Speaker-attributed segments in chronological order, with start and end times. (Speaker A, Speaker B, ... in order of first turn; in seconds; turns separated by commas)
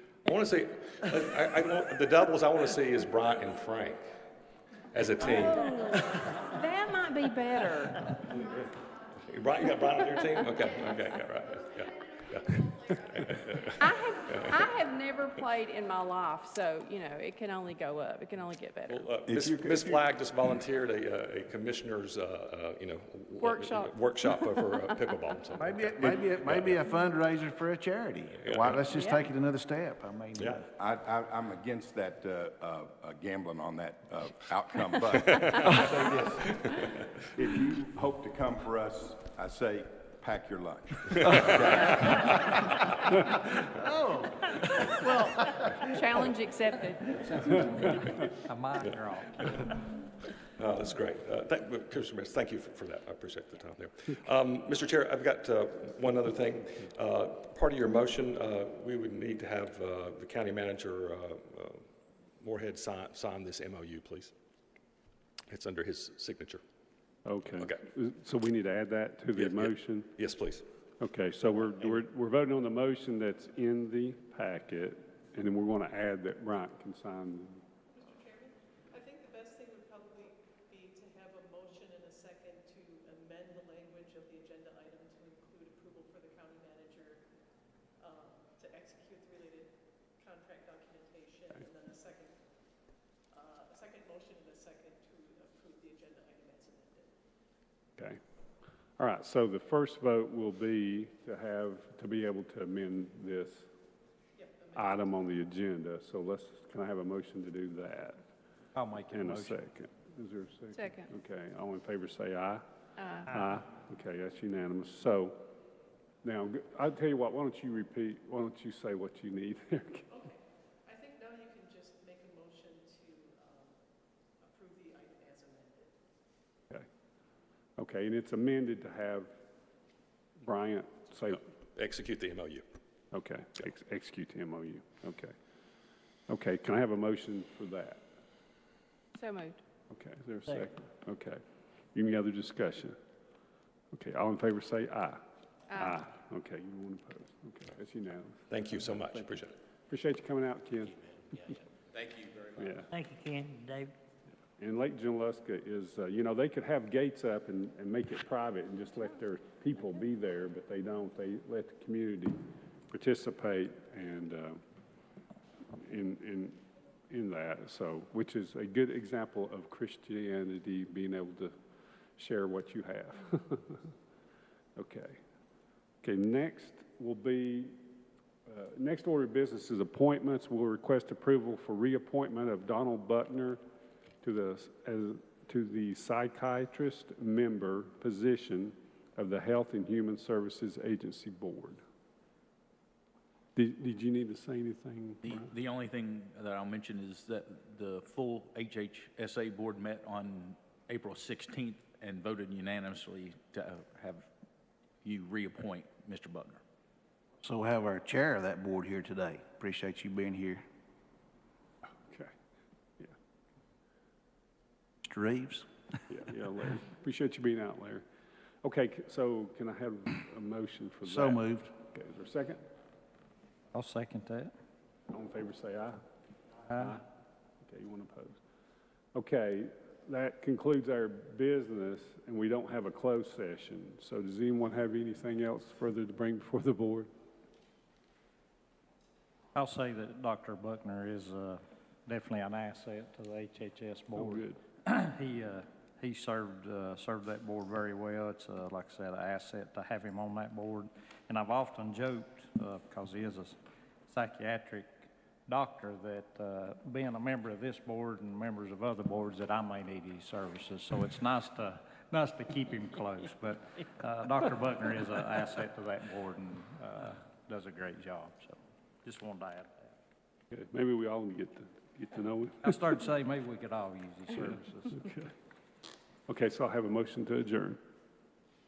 Speaker A: 0.2-4.1, Speaker A: 4.9-6.3, Speaker B: 5.2-8.0, Speaker A: 9.3-14.7, Speaker B: 13.8-18.9, Speaker A: 18.9-26.8, Speaker C: 19.2-20.0, Speaker B: 23.4-23.9, Speaker D: 25.6-30.6, Speaker A: 28.4-28.8, Speaker A: 30.4-30.6, Speaker C: 30.7-42.3, Speaker A: 35.3-35.8, Speaker A: 36.5-36.8, Speaker A: 41.3-41.9, Speaker D: 43.5-46.1, Speaker B: 45.9-47.0, Speaker E: 47.1-49.5, Speaker A: 48.8-49.7, Speaker A: 50.6-61.8, Speaker A: 62.4-64.3, Speaker A: 65.5-66.6, Speaker F: 67.2-70.1, Speaker A: 69.3-70.6, Speaker F: 71.0-77.6, Speaker G: 78.0-87.2, Speaker G: 88.0-89.7, Speaker G: 90.2-92.3, Speaker G: 93.3-97.1, Speaker F: 99.0-103.7, Speaker G: 104.4-105.0, Speaker F: 104.7-108.2, Speaker E: 108.7-109.6, Speaker F: 109.1-112.6, Speaker F: 113.2-115.4, Speaker F: 116.2-120.1, Speaker G: 120.9-123.5, Speaker G: 124.5-125.9, Speaker F: 127.8-129.3, Speaker F: 130.4-131.4, Speaker A: 131.8-132.6, Speaker F: 133.1-135.3, Speaker F: 136.3-138.0, Speaker B: 139.1-139.6, Speaker F: 139.9-141.4, Speaker F: 141.9-143.0, Speaker F: 143.9-145.2, Speaker F: 145.7-151.6, Speaker A: 148.5-149.5, Speaker H: 152.0-152.5, Speaker F: 152.6-152.9, Speaker E: 152.9-153.9, Speaker F: 154.6-164.6, Speaker F: 165.8-171.5, Speaker F: 172.2-173.9, Speaker F: 174.8-175.2, Speaker F: 176.0-177.8, Speaker F: 178.5-183.6, Speaker F: 184.2-191.8, Speaker F: 193.5-195.5, Speaker H: 195.2-204.3, Speaker H: 205.0-206.6, Speaker D: 207.4-210.6, Speaker D: 215.0-215.7, Speaker F: 216.1-218.0, Speaker F: 218.6-222.6, Speaker D: 221.0-221.7, Speaker E: 223.7-224.5, Speaker F: 225.1-226.0, Speaker F: 226.7-227.0, Speaker F: 227.6-228.4, Speaker F: 229.1-237.1, Speaker E: 239.5-253.6, Speaker F: 244.1-244.6, Speaker E: 254.1-269.9, Speaker F: 270.5-272.8, Speaker E: 272.6-275.1, Speaker F: 274.4-275.3, Speaker F: 276.3-277.8